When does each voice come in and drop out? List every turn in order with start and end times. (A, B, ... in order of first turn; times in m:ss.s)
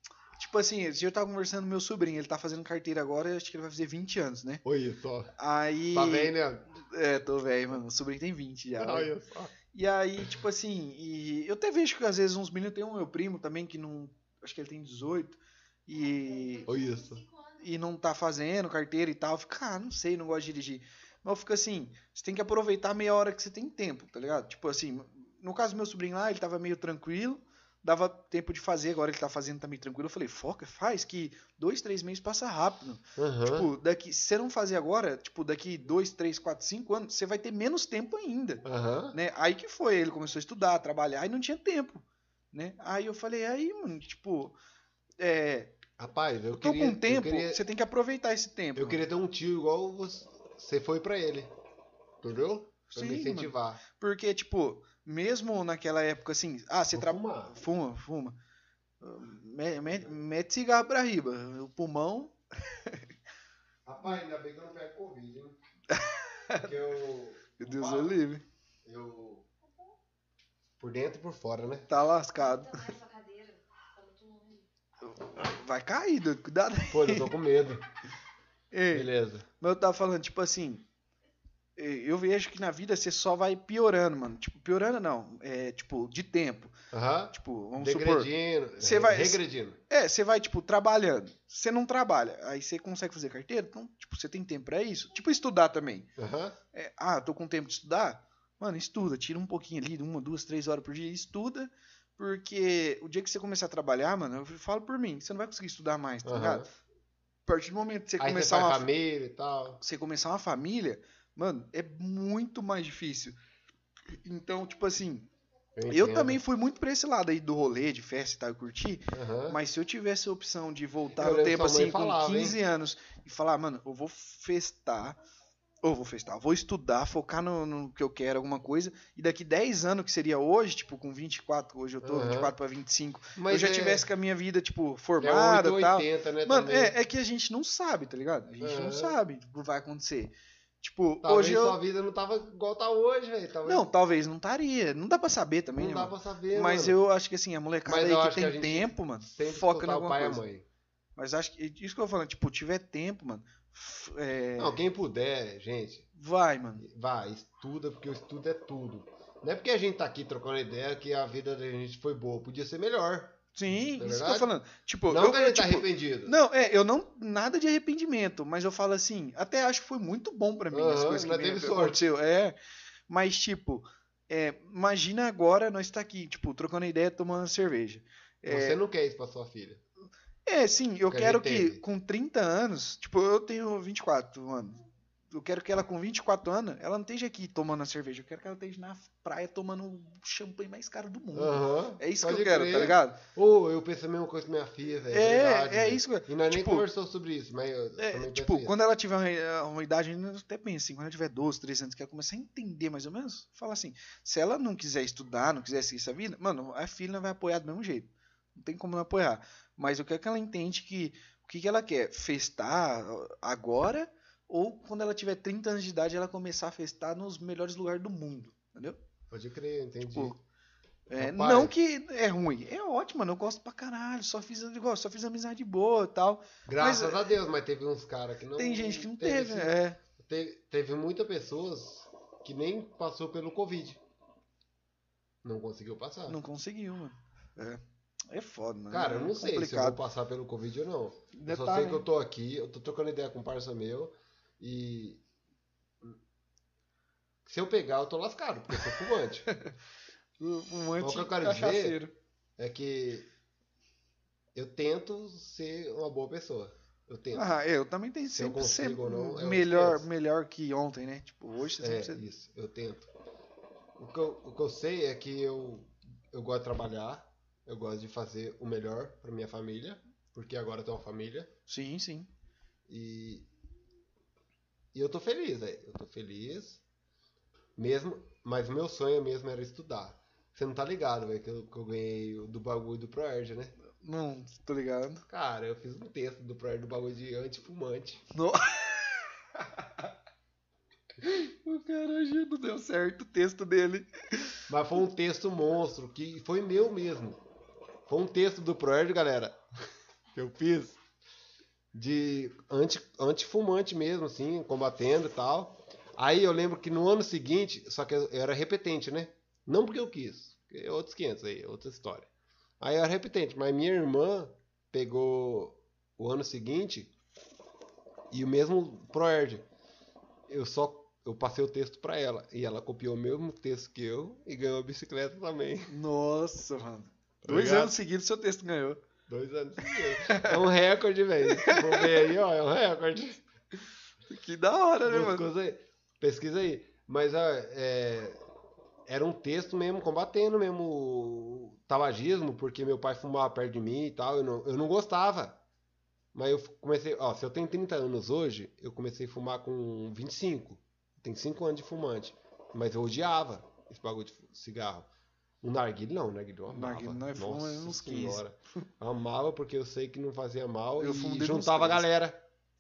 0:00.4-0:04.6 A
0:04.6-0:05.3 B
0:05.4-0:09.1 A
0:05.9-0:06.7 B
0:08.8-0:09.5 B
0:09.7-0:16.7 A
0:15.9-0:17.6 C
0:16.7-0:17.2 B
0:17.6-0:44.6 A
0:33.2-0:33.7 B
0:38.6-0:39.2 B
0:45.2-0:45.8 A
0:46.0-0:47.6 B
0:46.5-0:49.0 A
0:48.8-0:51.5 B
0:52.2-0:53.8 B
0:52.9-0:58.4 A
0:56.9-0:57.6 B
0:59.0-1:03.0 A
1:03.8-1:05.6 B
1:05.9-1:06.8 A
1:06.6-1:08.2 B
1:07.6-1:08.4 A
1:08.8-1:09.4 B
1:10.8-1:11.9 B
1:11.9-1:12.9 A
1:12.4-1:14.7 C
1:15.0-1:17.3 A
1:16.9-1:17.8 B
1:18.7-1:20.8 A
1:18.9-1:19.4 B
1:21.8-1:26.7 A
1:26.9-1:29.8 B
1:27.3-1:36.1 A
1:36.2-1:36.6 B
1:36.7-1:46.7 A
1:46.2-1:46.7 B
1:47.4-1:48.8 A
1:48.2-1:49.8 B
1:49.8-1:53.4 A
1:54.1-1:55.3 A
1:55.8-1:56.4 B
1:55.9-2:05.2 A
1:59.1-1:59.6 B
2:01.2-2:02.6 B
2:05.8-2:21.8 A
2:12.0-2:12.5 B
2:13.4-2:14.1 B
2:15.2-2:16.9 B
2:18.6-2:19.2 B
2:21.2-2:23.9 B
2:23.6-2:30.4 A
2:25.8-2:27.0 B
2:27.8-2:30.6 B
2:31.2-2:34.8 A
2:34.6-2:36.0 B
2:36.2-2:36.8 A
2:36.8-2:43.4 B
2:43.5-2:52.5 A
2:43.9-2:44.5 B
2:45.1-2:46.4 B
2:50.7-2:52.1 B
2:53.1-2:58.8 A
2:58.5-2:59.8 B
3:00.4-3:13.2 A
3:01.1-3:01.8 B
3:11.3-3:18.8 B
3:15.1-3:16.9 A
3:18.0-3:39.0 A
3:39.3-3:40.4 B
3:40.1-3:40.4 A
3:41.1-3:47.3 A
3:41.2-3:41.7 B
3:46.6-3:54.0 B
3:48.6-3:50.0 A
3:55.4-3:56.4 B
3:56.3-4:00.0 A
3:58.9-4:05.2 B
4:01.3-4:02.0 A
4:07.4-4:09.5 B
4:09.5-4:09.7 A
4:10.4-4:12.1 A
4:11.0-4:12.0 B
4:12.6-4:13.3 B
4:14.5-4:17.5 B
4:17.3-4:22.2 A
4:18.3-4:20.1 B
4:21.8-4:23.1 B
4:24.0-4:31.5 B
4:31.7-4:32.3 A
4:32.9-4:33.5 B
4:34.9-4:36.8 B
4:37.8-4:43.7 B
4:44.0-4:45.2 A
4:45.3-4:48.2 B
4:48.3-4:50.1 A
4:51.2-4:54.6 A
4:54.7-4:57.4 B
4:58.1-4:59.6 B
5:00.3-5:01.0 B
5:01.9-5:17.1 B
5:18.3-5:19.6 B
5:20.5-5:25.9 B
5:25.9-5:29.0 A
5:27.4-5:28.0 B
5:29.3-5:33.4 B
5:29.8-5:30.6 A
5:31.4-5:32.3 A
5:34.3-5:35.4 A
5:35.0-5:38.4 B
5:39.1-5:45.6 B
5:46.3-5:55.1 B
5:55.6-6:02.4 B
5:56.7-5:58.4 A
6:01.0-6:02.1 A